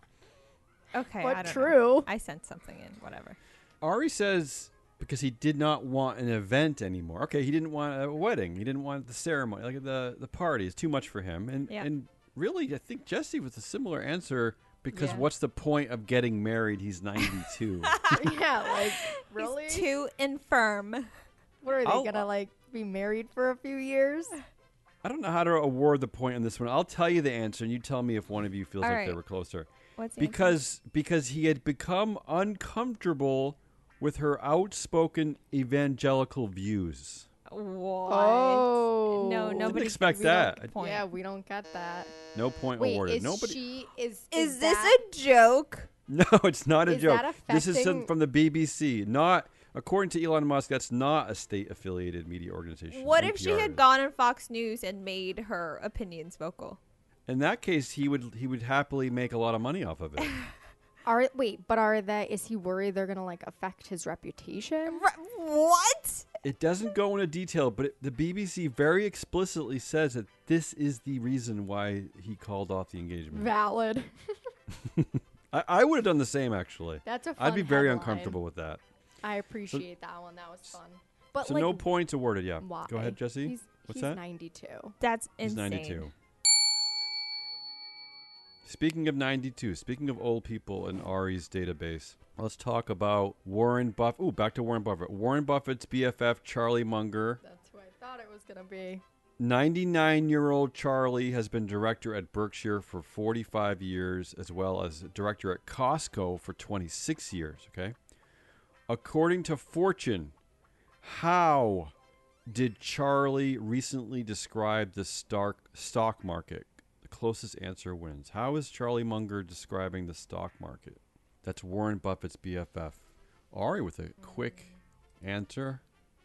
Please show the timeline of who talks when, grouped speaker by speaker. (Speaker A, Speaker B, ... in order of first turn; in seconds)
Speaker A: 0.9-3.4, 17.9-21.1, 28.8-29.2, 30.0-30.6, 37.5-41.1, 44.3-45.9, 52.9-56.8, 64.9-66.2, 85.0-86.1
Speaker B: 1.2-2.1, 14.9-15.2, 18.1-19.9, 21.6-24.4, 38.1-42.1, 42.8-45.0, 46.9-48.1, 61.0-65.0, 73.3-74.2, 77.0-78.4, 79.2-81.9, 82.6-84.9, 97.4-99.0
Speaker C: 3.8-18.0, 21.8-22.3, 25.0-37.3, 39.6-40.7, 42.3-43.6, 46.1-53.8, 57.3-60.4, 66.4-73.5, 74.7-78.8, 81.4-84.2, 85.4-86.1, 88.6-97.4, 99.4-108.0, 108.9-110.3, 111.0-111.9, 112.5-125.8